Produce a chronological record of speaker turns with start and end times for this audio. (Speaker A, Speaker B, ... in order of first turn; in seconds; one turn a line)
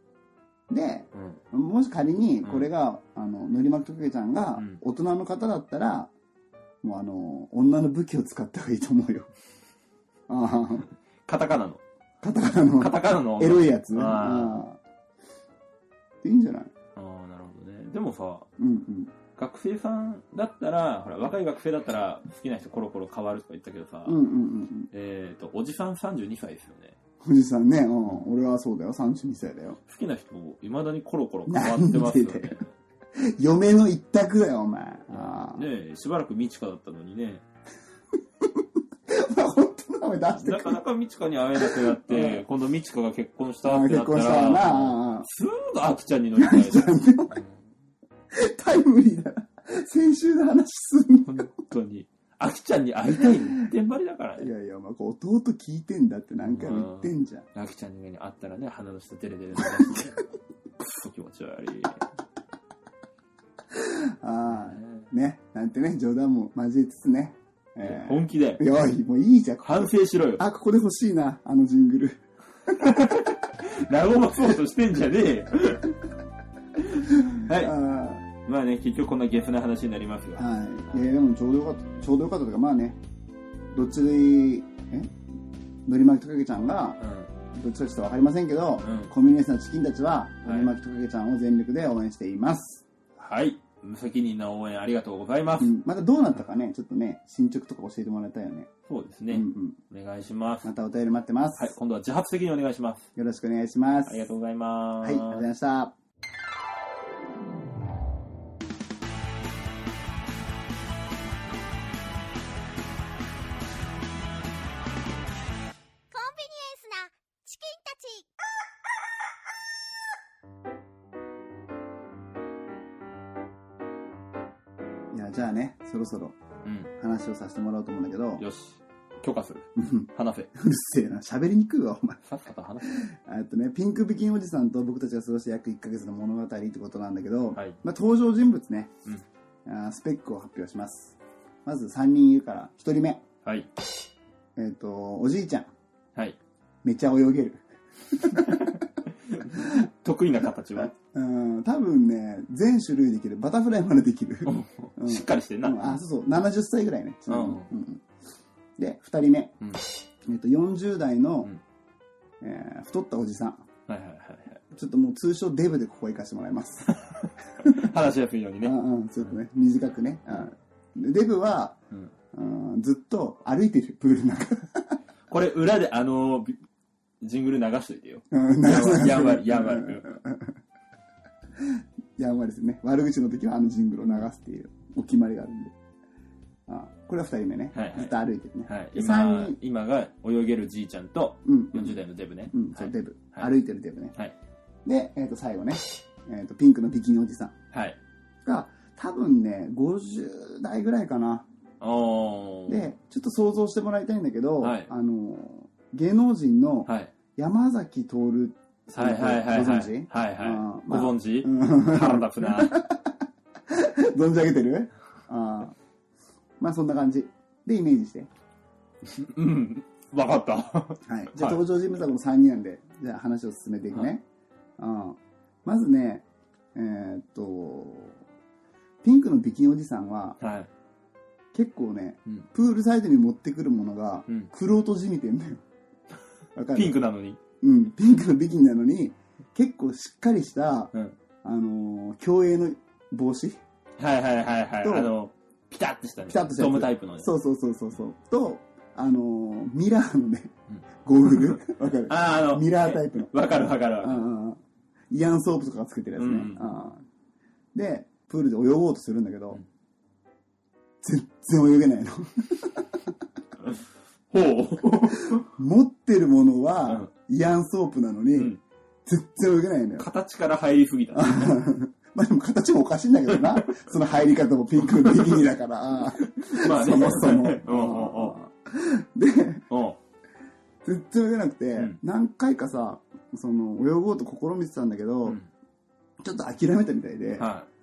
Speaker A: 0.7-6.1
Speaker B: 1.1-1.4
Speaker B: 2.4-2.7
Speaker A: 6.8-9.3
Speaker A: 10.3-10.9
Speaker B: 11.2-11.8
Speaker A: 12.2-14.8
Speaker B: 12.8-14.6
Speaker A: 16.2-16.7
Speaker B: 16.9-18.5
Speaker A: 18.6-19.1
Speaker B: 19.4-24.2
Speaker A: 24.0-24.9
Speaker B: 24.9-26.9
Speaker A: 27.2-29.8
Speaker B: 29.9-32.7
Speaker A: 31.5-32.6
Speaker A: 33.1-35.7
Speaker B: 35.1-37.4
Speaker A: 38.6-40.8
Speaker B: 40.4-47.6
Speaker A: 41.6-42.4
Speaker A: 43.6-45.3
Speaker A: 46.4-47.4
Speaker A: 48.3-51.5
Speaker B: 51.2-54.5
Speaker A: 54.4-57.5
Speaker B: 56.4-60.1
Speaker A: 59.8-60.1
Speaker B: 60.8-62.0
Speaker A: 63.7-73.1
Speaker B: 64.7-65.0
Speaker B: 67.8-68.6
Speaker B: 69.6-70.4
Speaker B: 72.8-75.9
Speaker B: 76.9-77.7
Speaker A: 77.2-78.3
Speaker B: 78.4-80.5
Speaker A: 80.4-83.0
Speaker A: 83.7-85.1
Speaker A: 85.8-87.0
Speaker B: 87.0-87.3
Speaker A: 87.5-92.8
Speaker B: 88.8-89.1
Speaker B: 90.4-90.7
Speaker B: 93.2-95.7
Speaker A: 95.6-98.7
Speaker B: 98.9-100.7
Speaker A: 99.3-99.8
Speaker A: 100.6-101.7
Speaker B: 101.6-103.1
Speaker A: 103.2-104.3
Speaker B: 104.1-105.5
Speaker A: 105.0-105.9
Speaker C: 116.1-118.3
Speaker A: 125.1-126.3
Speaker B: 126.6-126.9
Speaker A: 127.0-128.4
Speaker B: 128.4-130.5
Speaker A: 129.8-132.2
Speaker B: 132.2-133.0
Speaker A: 132.9-138.9
Speaker A: 139.7-143.2
Speaker B: 143.4-143.7
Speaker A: 144.6-145.7
Speaker A: 146.8-148.8
Speaker B: 148.4-148.8
Speaker B: 149.3-150.9
Speaker A: 150.9-158.0
Speaker B: 154.4-156.0
Speaker B: 157.3-157.7
Speaker A: 158.8-159.6
Speaker A: 160.3-161.5
Speaker A: 162.4-163.6
Speaker B: 163.9-164.6
Speaker A: 164.7-167.0
Speaker A: 167.6-167.8
Speaker B: 167.6-168.7
Speaker A: 168.6-171.8
Speaker A: 172.3-174.9
Speaker B: 175.3-176.6
Speaker B: 177.2-180.0
Speaker A: 178.3-180.5
Speaker A: 181.6-185.7
Speaker A: 186.7-189.6
Speaker B: 187.7-193.5
Speaker A: 191.4-192.0
Speaker A: 192.5-194.1
Speaker A: 194.8-197.5
Speaker B: 197.7-198.0
Speaker A: 198.4-201.5
Speaker B: 201.8-202.8
Speaker A: 202.7-213.1
Speaker B: 204.6-204.9
Speaker B: 206.8-207.1
Speaker B: 208.9-212.8
Speaker A: 213.7-215.8
Speaker A: 216.6-218.3
Speaker B: 219.0-221.6
Speaker A: 221.1-224.2
Speaker A: 224.8-228.2
Speaker A: 229.0-230.4
Speaker B: 230.4-230.7
Speaker A: 231.5-235.6
Speaker A: 236.5-237.0
Speaker B: 236.7-237.4
Speaker A: 237.6-240.9
Speaker A: 241.4-243.6
Speaker B: 244.0-247.3
Speaker A: 244.8-245.1
Speaker A: 246.3-254.6
Speaker B: 250.7-254.2
Speaker A: 255.1-257.0
Speaker B: 256.1-256.7
Speaker A: 257.7-259.6
Speaker A: 261.0-262.9
Speaker B: 264.3-265.4
Speaker A: 265.2-270.1
Speaker B: 270.0-271.6
Speaker A: 271.1-279.7
Speaker B: 273.3-273.8
Speaker B: 274.8-275.4
Speaker B: 276.2-278.3
Speaker B: 279.7-280.0
Speaker A: 280.8-285.4
Speaker A: 286.2-287.5
Speaker B: 287.4-287.7